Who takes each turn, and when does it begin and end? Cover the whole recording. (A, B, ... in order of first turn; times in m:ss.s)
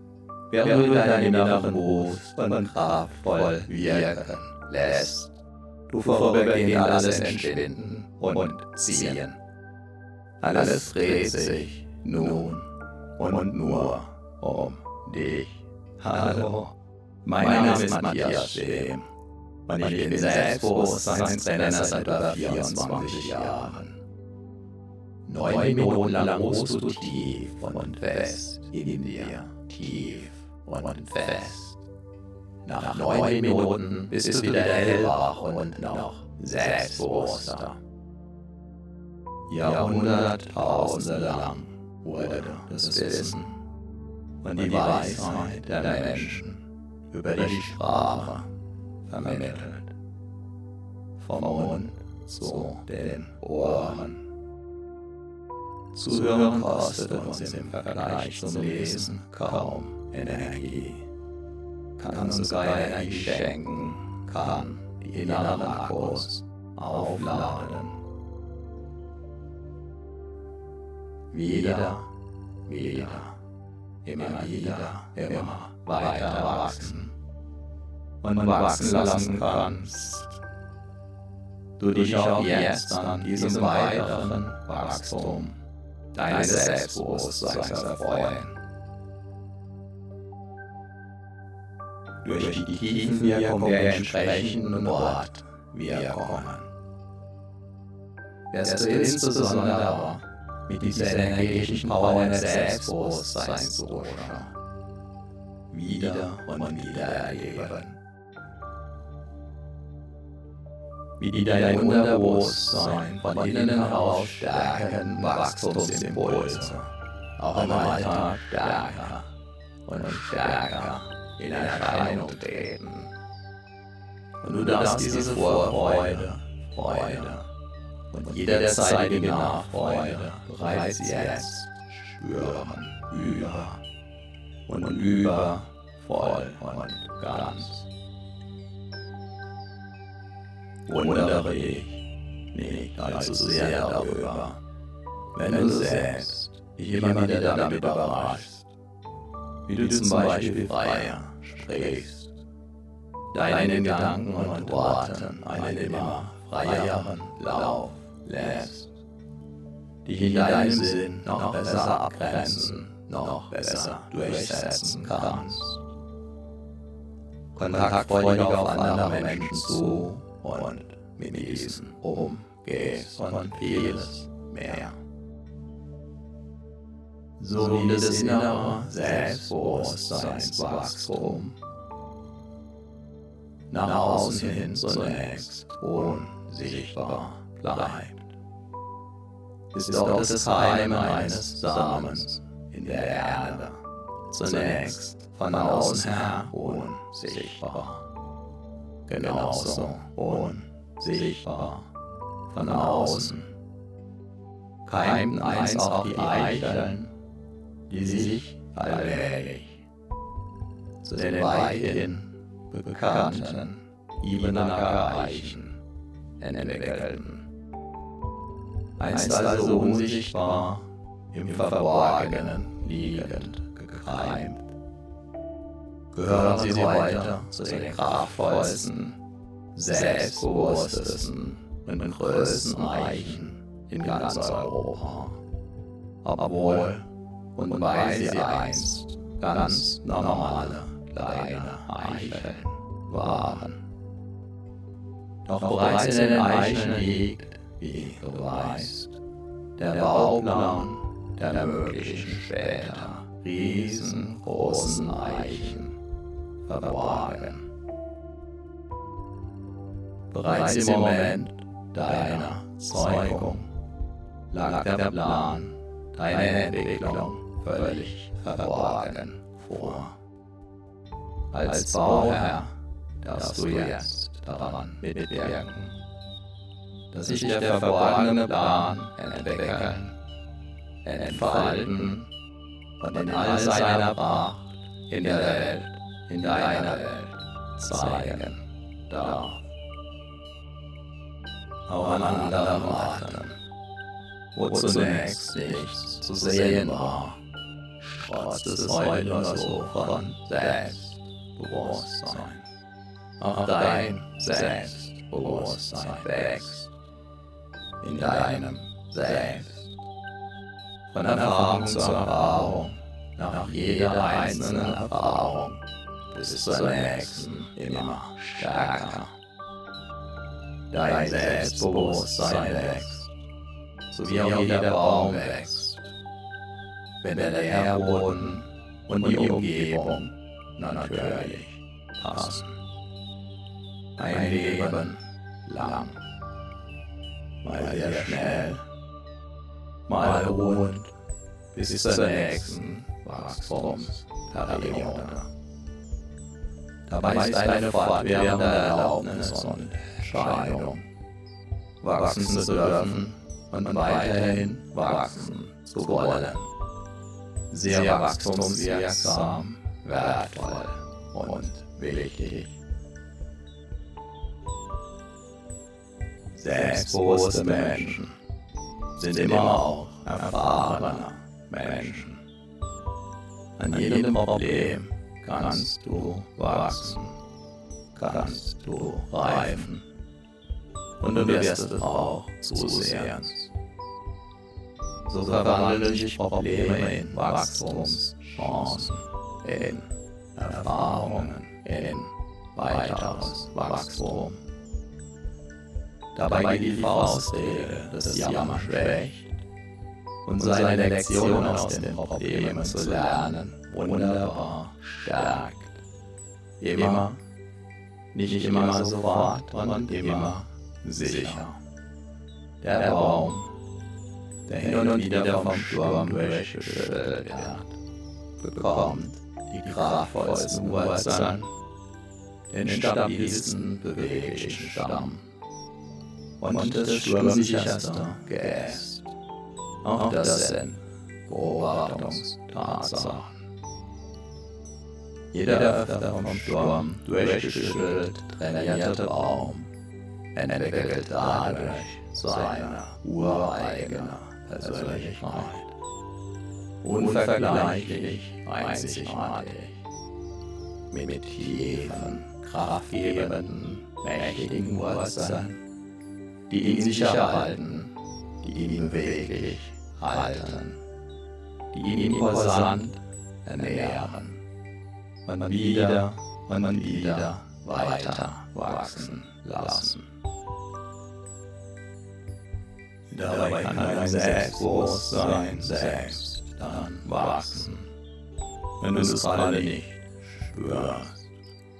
0:00.5-0:05.3 A
0:05.9-0:09.4 A
0:10.4-0:19.1 A
0:19.6-0:24.0 A
0:25.2-0:31.8 A
0:32.6-0:37.8 A
0:39.5-0:43.6 A
0:44.4-0:48.5 A
0:49.0-0:49.9 A
0:51.2-0:54.2 A
0:55.9-1:01.0 A
1:02.0-1:08.0 A
1:11.3-1:12.1 A
1:12.6-1:13.4 A
1:14.0-1:17.1 A
1:18.2-1:20.4 A
1:21.8-1:25.6 A
1:26.1-1:28.6 A
1:32.2-1:36.7 A
1:38.5-1:44.6 A
1:45.7-1:48.0 A
1:51.2-1:59.3 A
1:59.8-2:03.1 A
2:04.4-2:07.5 A
2:08.1-2:13.8 A
2:14.6-2:17.9 A
2:20.8-2:24.6 A
2:25.3-2:28.7 A
2:29.6-2:32.3 A
2:33.3-2:38.9 A
2:40.0-2:45.8 A
2:47.5-2:55.0 A
2:57.4-3:01.6 A
3:03.7-3:08.3 A
3:09.7-3:18.1 A
3:19.0-3:21.9 A
3:22.5-3:23.5 A
3:24.8-3:27.1 A
3:27.9-3:29.8 A
3:31.0-3:35.8 A
3:36.4-3:37.5 A
3:39.0-3:44.7 A
3:46.1-3:49.2 A
3:49.7-3:55.4 A
3:56.2-4:03.8 A
4:05.4-4:09.2 A
4:09.8-4:16.0 A
4:16.6-4:17.7 A
4:20.3-4:23.7 A
4:24.5-4:30.2 A
4:31.5-4:36.0 A
4:37.1-4:40.2 A
4:41.0-4:42.3 A
4:43.0-4:49.6 A
4:51.9-4:53.6 A
4:54.5-4:57.4 A
4:58.1-5:02.7 A
5:03.4-5:06.9 A
5:08.0-5:09.9 A
5:11.1-5:19.4 A
5:20.9-5:23.3 A
5:24.1-5:26.1 A
5:27.2-5:32.8 A
5:34.2-5:36.2 A
5:37.6-5:38.9 A
5:40.0-5:41.1 A
5:41.7-5:45.5 A
5:47.1-5:51.1 A
5:52.0-5:56.7 A
5:57.7-6:02.8 A
6:06.5-6:08.4 A
6:09.1-6:12.4 A
6:13.8-6:17.4 A
6:18.1-6:20.1 A
6:21.2-6:23.7 A
6:25.2-6:34.6 A
6:36.3-6:39.6 A
6:40.4-6:46.0 A
6:46.8-6:47.4 A
6:48.3-6:51.8 A
6:52.8-6:53.7 A
6:54.6-6:58.0 A
6:58.6-7:01.7 A
7:02.7-7:05.5 A
7:06.6-7:09.3 A
7:10.0-7:13.6 A
7:15.5-7:19.9 A
7:20.5-7:25.9 A
7:27.0-7:30.0 A
7:31.1-7:35.8 A
7:36.7-7:41.0 A
7:41.9-7:44.6 A
7:45.4-7:50.3 A
7:53.3-7:58.1 A
7:59.0-8:01.5 A